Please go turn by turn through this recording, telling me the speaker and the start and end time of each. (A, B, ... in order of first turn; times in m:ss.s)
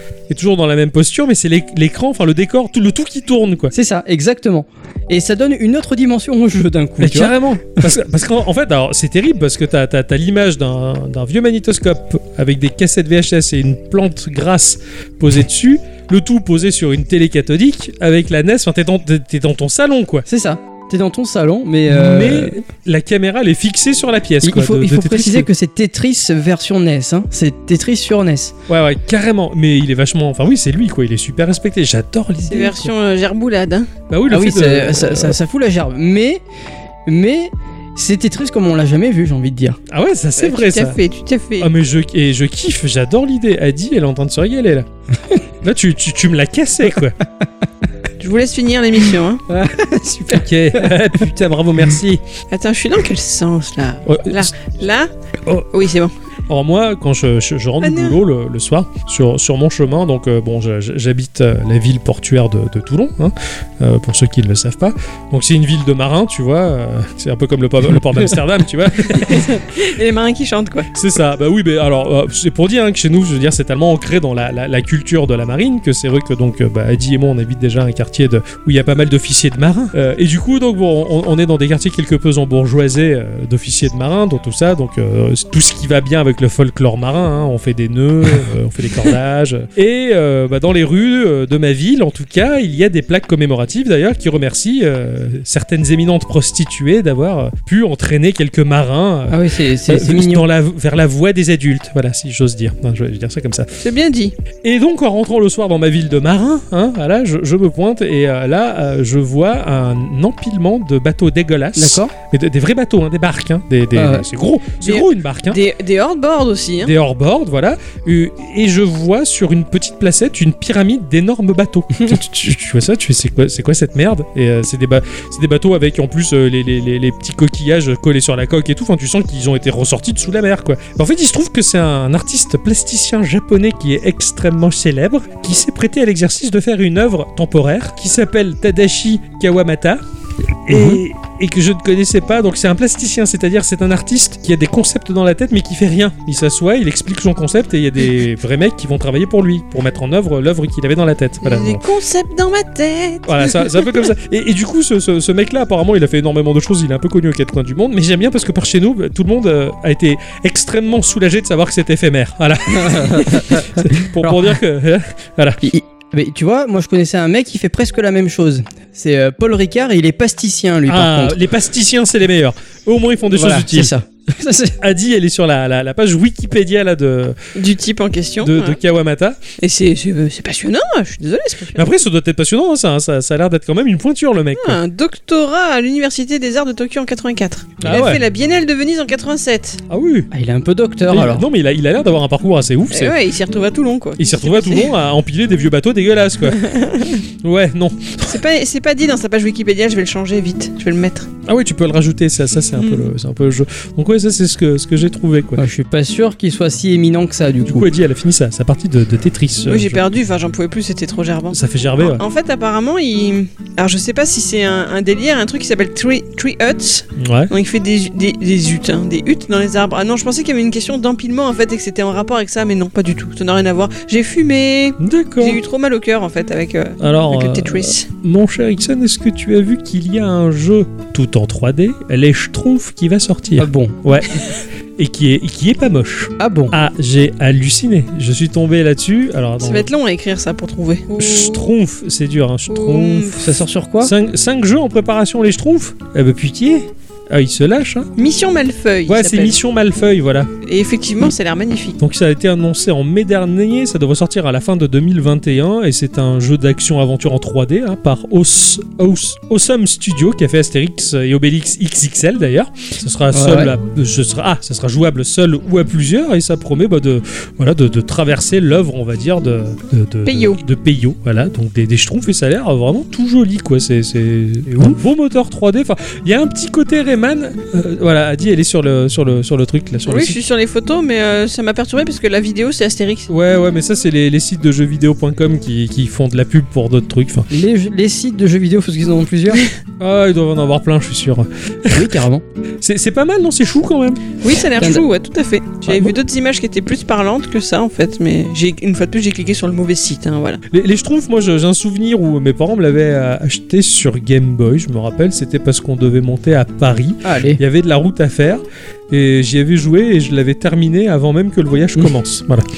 0:00.3-0:03.7 A
0:03.7-0:07.9 B
0:07.0-0:20.2 A
0:20.2-0:22.6 B
0:21.9-0:25.5 A
0:24.4-0:28.5 B
0:28.7-0:32.9 A
0:32.4-0:33.9 C
0:34.1-0:35.4 A
0:34.3-0:36.4 B
0:37.0-0:39.8 B
0:39.9-0:41.0 A
0:40.4-0:41.7 C
0:41.6-0:44.9 A
0:45.6-0:47.2 A
0:48.2-0:49.4 C
0:49.5-0:50.9 B
0:50.3-0:52.2 A
0:52.5-0:55.1 C
0:54.0-0:54.5 A
0:55.7-0:56.1 C
0:56.5-1:09.5 A
0:57.8-0:58.2 C
1:09.1-1:10.9 C
1:10.9-1:43.7 A
1:39.3-1:40.5 B
1:43.8-1:44.3 C
1:44.6-1:55.6 A
1:51.8-1:52.1 B
1:53.9-1:54.3 B
1:54.8-1:56.9 C
1:56.8-2:20.0 A
2:20.7-2:31.8 A
2:20.7-2:21.0 B
2:31.4-2:34.1 C
2:33.3-2:45.6 A
2:42.7-2:44.5 B
2:45.6-2:51.4 B
2:50.9-2:53.9 A
2:53.3-2:54.8 B
2:54.8-2:57.4 A
2:57.5-2:58.8 C
2:58.4-2:59.4 A
2:59.6-3:01.9 C
3:01.8-3:04.8 A
3:04.6-3:09.8 C
3:07.8-3:08.2 A
3:09.9-3:10.3 A
3:10.3-3:11.5 B
3:11.1-3:13.1 A
3:12.9-3:14.9 C
3:14.2-3:16.6 A
3:16.5-3:17.2 C
3:17.4-3:18.4 A
3:18.2-3:21.3 C
3:21.4-3:25.6 A
3:22.8-3:23.1 C
3:25.6-3:27.9 B
3:27.7-3:30.0 A
3:29.6-3:48.1 C
3:31.5-3:32.2 A
3:37.2-3:37.5 A
3:45.0-3:45.6 A
3:47.0-3:59.9 A
3:53.6-3:54.0 B
3:56.4-3:56.7 B
3:59.6-4:01.7 C
4:01.2-4:08.1 A
4:02.7-4:03.4 C
4:03.4-4:04.1 B
4:08.2-4:09.6 C
4:09.1-4:10.5 A
4:10.6-4:12.0 C
4:12.0-4:40.4 A
4:23.3-4:23.7 B
4:30.2-4:30.6 C
4:40.0-4:43.3 C
4:43.3-4:47.5 A
4:47.5-4:49.6 B
4:50.0-4:52.1 A
4:51.9-4:52.4 B
4:52.8-4:54.3 A
4:54.4-5:00.6 C
4:54.8-4:55.0 B
5:00.7-5:12.7 A
5:07.2-5:07.6 B